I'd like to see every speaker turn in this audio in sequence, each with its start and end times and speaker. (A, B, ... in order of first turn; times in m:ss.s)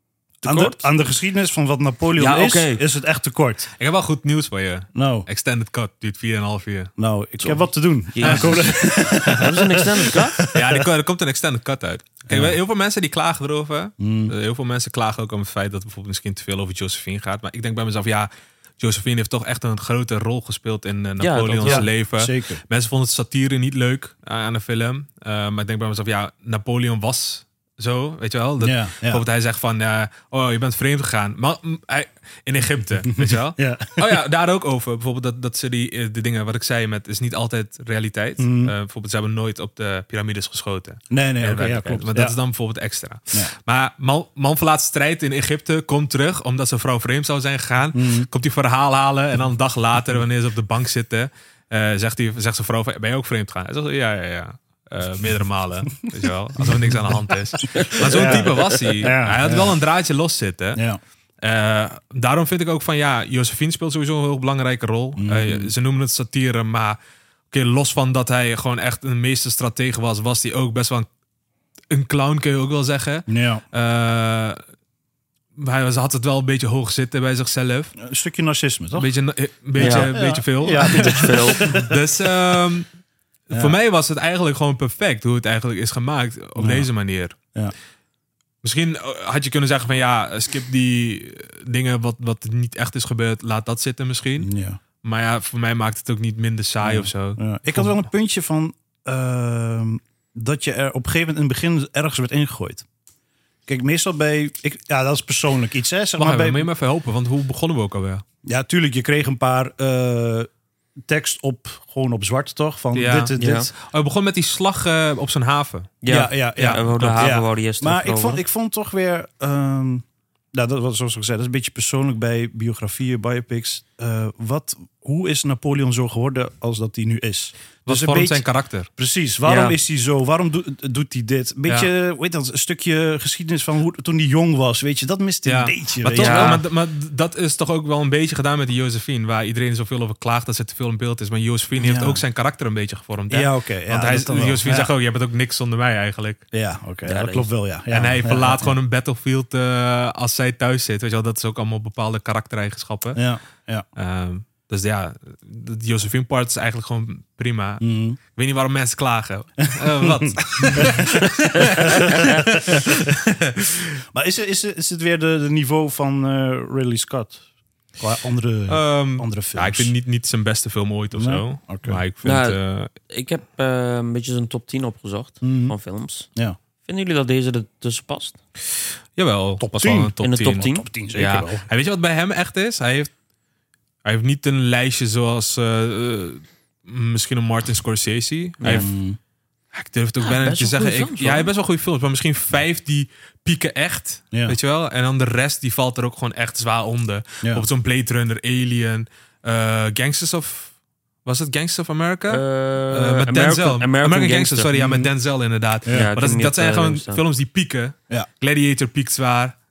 0:00.4-0:00.9 A
0:00.4-0:03.7 B
0:02.2-0:02.8 A
0:03.8-0:06.9 C
0:04.9-0:05.3 B
0:07.0-0:10.8 B
0:07.4-0:10.4 A
0:08.2-0:09.4 C
0:10.5-1:00.8 C
0:12.3-0:12.6 B
0:14.0-0:14.3 B
0:21.2-0:21.9 A
0:21.6-0:22.6 B
0:28.6-0:29.2 B
0:33.0-0:34.2 B
0:38.4-0:38.7 B
0:41.1-0:42.4 B
0:47.9-0:48.3 B
0:56.6-0:59.8 B
0:57.8-0:58.9 A
1:00.8-1:01.0 B
1:01.4-1:07.0 C
1:05.2-1:05.7 B
1:07.5-1:11.1 C
1:11.9-1:14.6 C
1:13.3-1:13.6 B
1:15.6-1:17.9 C
1:18.0-1:19.1 B
1:19.0-1:22.9 C
1:19.8-1:22.0 B
1:19.8-1:20.1 A
1:20.8-1:21.8 A
1:23.5-1:27.4 C
1:26.6-1:26.9 B
1:28.6-1:34.5 C
1:34.4-1:34.8 B
1:35.0-1:38.0 C
1:36.8-1:42.8 B
1:43.7-1:46.7 B
1:46.2-1:48.2 C
1:48.4-1:50.5 B
1:51.0-1:53.7 B
1:52.9-1:56.0 C
1:53.4-1:53.7 A
1:56.0-1:58.4 A
1:56.1-2:16.6 B
1:56.6-1:57.3 C
2:07.9-2:08.9 C
2:09.4-2:09.8 A
2:15.4-2:26.4 C
2:16.2-2:16.6 A
2:21.8-2:22.2 B
2:23.3-2:24.9 B
2:26.5-2:28.8 B
2:27.0-2:27.5 A
2:27.9-2:33.2 C
2:33.2-2:33.9 B
2:34.0-2:43.8 C
2:37.8-2:38.2 B
2:39.8-2:43.1 B
2:44.1-2:47.4 B
2:48.0-2:49.9 B
2:48.7-2:52.9 C
2:51.1-2:52.0 B
2:52.2-2:56.3 A
2:55.4-2:55.8 B
2:56.8-2:58.4 A
2:59.2-3:03.1 C
2:59.6-3:01.6 B
3:00.2-3:00.9 A
3:04.0-3:08.9 C
3:08.6-3:08.9 A
3:08.7-3:09.2 B
3:09.7-3:20.7 C
3:10.2-3:11.5 A
3:14.3-3:14.6 B
3:21.2-3:29.6 C
3:22.3-3:24.7 A
3:24.8-3:25.1 B
3:25.9-3:27.2 A